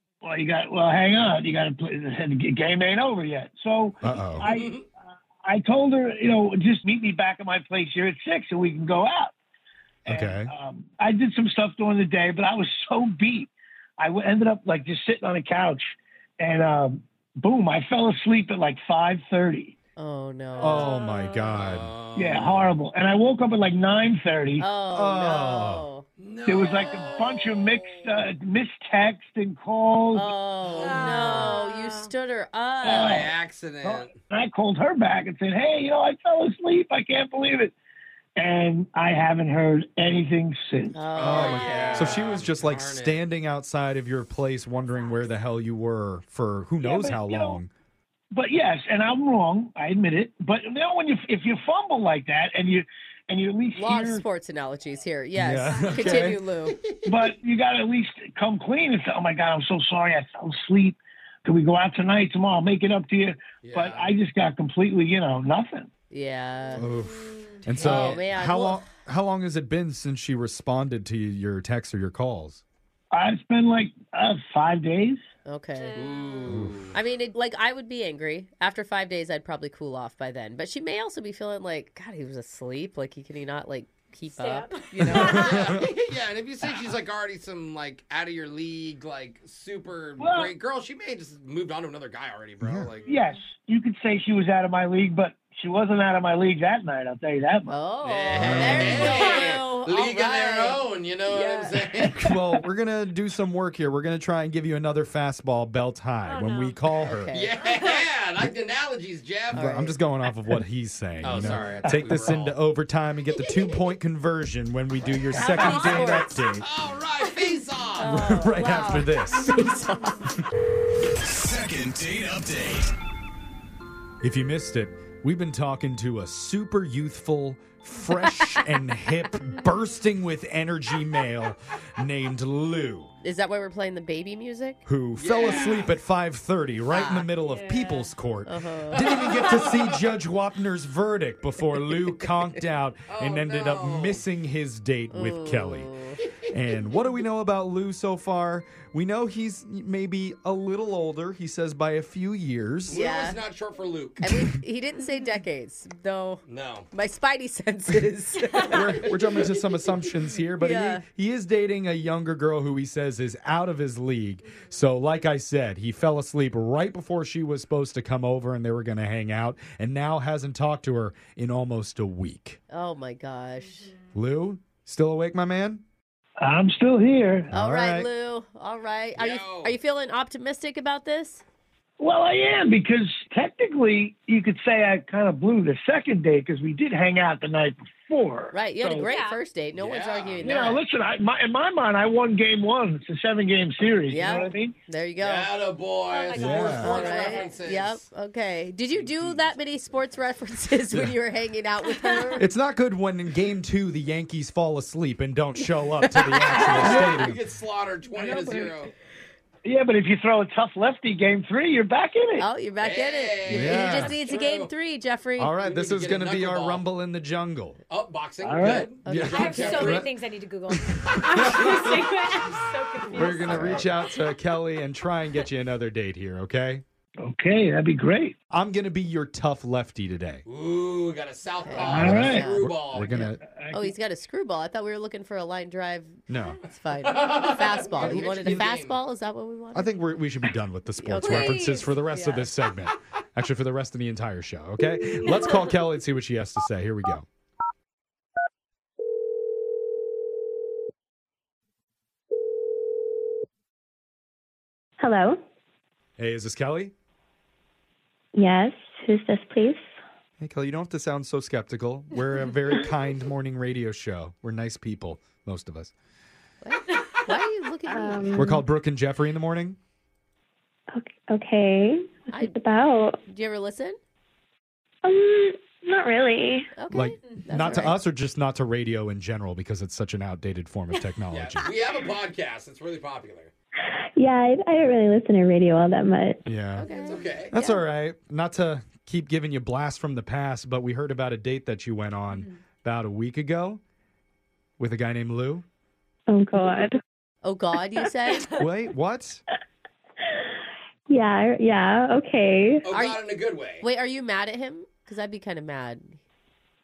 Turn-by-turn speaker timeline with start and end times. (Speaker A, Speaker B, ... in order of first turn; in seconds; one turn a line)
Speaker A: 0.2-4.8
Speaker B: 4.0-4.5
Speaker C: 4.5-4.8
Speaker A: 5.4-9.3
Speaker A: 10.1-19.7
Speaker B: 10.1-10.5
Speaker D: 20.0-21.0
Speaker E: 20.6-21.5
Speaker B: 20.6-21.9
Speaker C: 21.5-22.8
Speaker A: 22.1-24.6
Speaker D: 24.6-26.1
Speaker B: 24.9-25.9
Speaker C: 26.2-28.1
Speaker A: 26.5-30.3
Speaker D: 30.1-33.3
Speaker C: 30.7-31.4
Speaker E: 30.8-32.1
Speaker A: 32.8-33.3
Speaker C: 32.9-34.1
Speaker A: 33.8-37.7
Speaker A: 38.4-41.1
Speaker D: 40.9-42.3
Speaker C: 41.1-43.2
Speaker B: 41.2-47.7
Speaker A: 46.8-47.6
Speaker A: 48.3-54.2
Speaker D: 53.8-56.8
Speaker B: 55.4-56.4
Speaker C: 56.7-57.2
Speaker A: 57.0-65.9
Speaker C: 63.6-64.1
Speaker D: 66.1-66.9
Speaker B: 66.8-72.6
Speaker C: 67.8-68.2
Speaker D: 67.8-68.8
Speaker A: 73.1-75.2
Speaker D: 75.5-76.0
Speaker E: 75.8-76.5
Speaker C: 75.9-77.0
Speaker B: 76.5-76.7
Speaker D: 76.9-85.6
Speaker E: 84.3-85.4
Speaker B: 85.1-85.9
Speaker C: 85.1-93.1
Speaker A: 90.2-90.5
Speaker B: 92.6-92.9
Speaker A: 93.1-97.7
Speaker D: 97.7-102.2
Speaker C: 98.0-102.2
Speaker B: 98.3-99.2
Speaker B: 102.2-107.3
Speaker E: 106.2-106.8
Speaker D: 107.0-107.5
Speaker C: 107.3-109.7
Speaker D: 109.5-110.0
Speaker B: 109.5-116.7
Speaker C: 111.2-112.6
Speaker D: 115.3-116.4
Speaker C: 115.4-116.1
Speaker C: 116.6-118.1
Speaker D: 118.0-120.2
Speaker B: 118.0-119.6
Speaker B: 124.2-133.1
Speaker D: 133.2-134.8
Speaker B: 134.8-145.9
Speaker C: 135.2-136.0
Speaker D: 136.9-137.3
Speaker E: 137.4-138.1
Speaker D: 138.4-139.3
Speaker C: 138.9-140.1
Speaker C: 143.1-144.2
Speaker D: 145.1-146.2
Speaker B: 146.5-153.0
Speaker C: 152.9-154.2
Speaker D: 152.9-153.4
Speaker D: 154.2-159.5
Speaker B: 154.2-154.5
Speaker C: 156.5-156.9
Speaker B: 158.7-172.6
Speaker D: 160.6-161.0
Speaker D: 172.7-173.9
Speaker B: 174.2-175.8
Speaker A: 176.4-177.5
Speaker B: 177.5-178.1
Speaker D: 177.5-181.4
Speaker C: 179.2-179.8
Speaker A: 182.0-189.1
Speaker D: 188.5-190.8
Speaker E: 189.0-189.4
Speaker C: 189.8-190.6
Speaker A: 190.4-194.7
Speaker D: 194.1-195.5
Speaker C: 195.2-198.0
Speaker E: 196.1-197.6
Speaker B: 196.3-197.0
Speaker D: 196.6-202.5
Speaker C: 198.9-199.5
Speaker E: 202.0-202.2
Speaker B: 202.4-207.4
Speaker D: 206.1-207.2
Speaker C: 206.5-208.9
Speaker A: 208.1-208.9
Speaker A: 209.6-212.5
Speaker D: 212.4-215.5
Speaker C: 212.8-214.7
Speaker B: 213.5-214.2
Speaker B: 215.4-217.8
Speaker C: 215.6-216.9
Speaker C: 217.9-220.0
Speaker A: 218.4-218.9
Speaker D: 219.0-220.0
Speaker B: 219.1-220.1
Speaker E: 219.3-223.9
Speaker B: 221.1-222.2
Speaker B: 223.1-226.8
Speaker D: 223.2-223.9
Speaker A: 227.2-228.3
Speaker B: 228.5-230.4
Speaker C: 230.5-233.2
Speaker D: 231.6-239.9
Speaker A: 231.8-233.9
Speaker B: 231.9-233.4
Speaker B: 236.3-236.6
Speaker C: 237.0-239.0
Speaker B: 238.0-238.7
Speaker B: 239.7-247.3
Speaker D: 241.0-242.5
Speaker E: 241.2-241.7
Speaker F: 255.0-255.4
Speaker B: 256.2-256.9
Speaker F: 258.4-259.8
Speaker B: 260.4-265.9
Speaker D: 266.6-268.4
Speaker F: 267.9-268.6
Speaker B: 268.4-269.8
Speaker F: 270.9-273.2
Speaker D: 272.3-272.6
Speaker D: 273.3-274.0
Speaker F: 275.0-276.7
Speaker D: 276.8-278.0
Speaker B: 276.9-281.6
Speaker C: 281.3-283.5
Speaker F: 283.9-286.4
Speaker B: 286.5-286.9
Speaker D: 286.8-287.8
Speaker C: 286.9-287.5
Speaker B: 287.5-293.8
Speaker B: 294.8-295.6
Speaker F: 296.3-296.9
Speaker D: 297.4-298.5
Speaker B: 298.6-299.4
Speaker F: 301.1-302.9
Speaker C: 302.8-303.8
Speaker D: 302.9-303.2
Speaker D: 303.8-306.2